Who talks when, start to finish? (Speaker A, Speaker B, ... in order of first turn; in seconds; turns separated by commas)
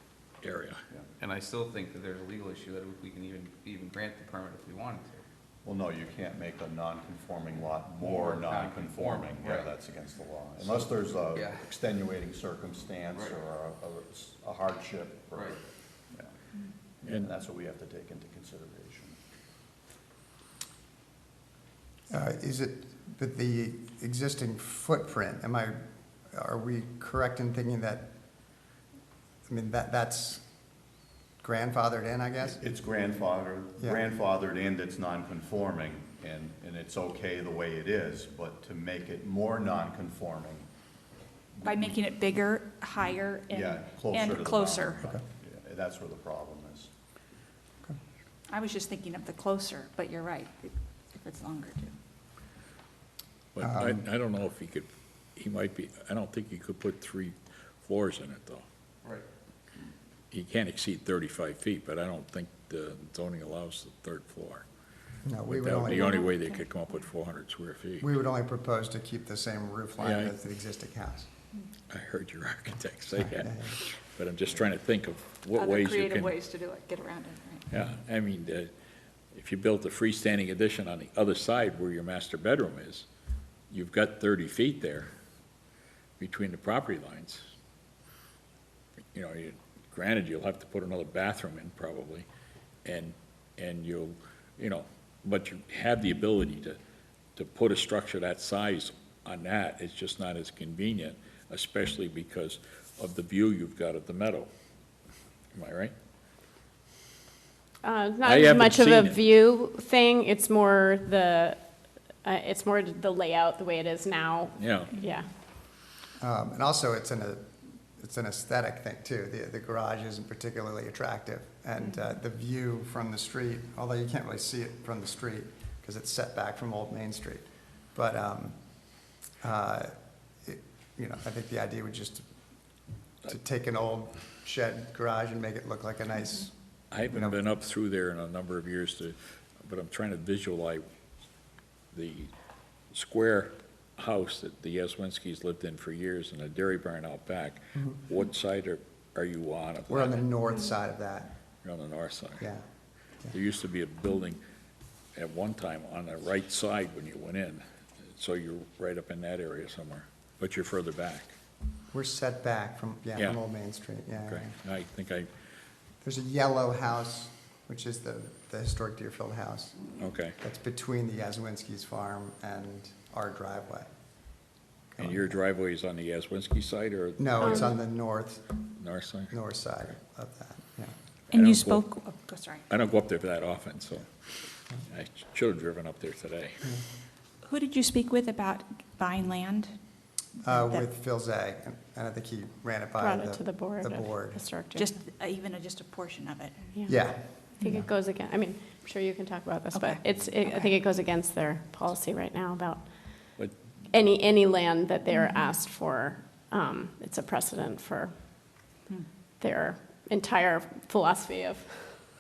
Speaker A: 0.4-0.8, Speaker B: 1.2-5.2, Speaker C: 5.7-15.6, Speaker B: 8.0-9.7, Speaker B: 11.3-11.6, Speaker C: 17.0-19.2, Speaker D: 22.1-28.1, Speaker D: 29.5-30.5, Speaker D: 31.4-32.6, Speaker C: 32.6-40.7, Speaker C: 41.6-42.0, Speaker E: 41.6-45.1, Speaker C: 43.5-46.9, Speaker E: 48.5-51.9, Speaker A: 53.5-58.6, Speaker D: 53.6-54.0, Speaker A: 60.3-64.7, Speaker D: 65.2-66.2, Speaker A: 65.5-68.1, Speaker D: 68.0-71.3, Speaker A: 70.0-70.3, Speaker A: 71.9-76.3, Speaker D: 73.4-73.7, Speaker E: 75.5-77.7, Speaker A: 77.7-78.7, Speaker A: 79.3-83.1, Speaker A: 83.7-85.1, Speaker A: 86.2-87.4, Speaker A: 89.1-92.3, Speaker A: 92.8-96.8, Speaker A: 97.4-104.5, Speaker A: 105.5-105.9, Speaker F: 107.8-115.3, Speaker A: 108.2-109.2, Speaker A: 114.6-114.9, Speaker E: 114.9-115.2, Speaker D: 116.2-137.4, Speaker A: 136.9-140.8, Speaker A: 141.9-142.3, Speaker A: 142.9-150.2, Speaker D: 149.9-151.3, Speaker A: 151.6-152.5, Speaker A: 153.3-154.4, Speaker A: 155.2-161.3, Speaker D: 161.9-164.6, Speaker A: 164.3-165.3, Speaker D: 166.0-169.9, Speaker A: 170.0-170.4, Speaker D: 170.4-173.9, Speaker D: 174.9-175.3, Speaker A: 175.0-177.5, Speaker D: 177.2-178.6, Speaker A: 178.8-179.3, Speaker D: 179.3-180.9, Speaker A: 181.3-181.9, Speaker E: 181.3-182.7, Speaker A: 182.7-184.1, Speaker A: 184.9-186.8, Speaker E: 187.4-189.8, Speaker D: 190.4-194.4, Speaker F: 193.0-194.9, Speaker E: 194.7-196.7, Speaker F: 196.7-208.8, Speaker D: 196.9-197.9, Speaker E: 199.7-200.9, Speaker E: 205.1-205.5, Speaker F: 209.4-212.1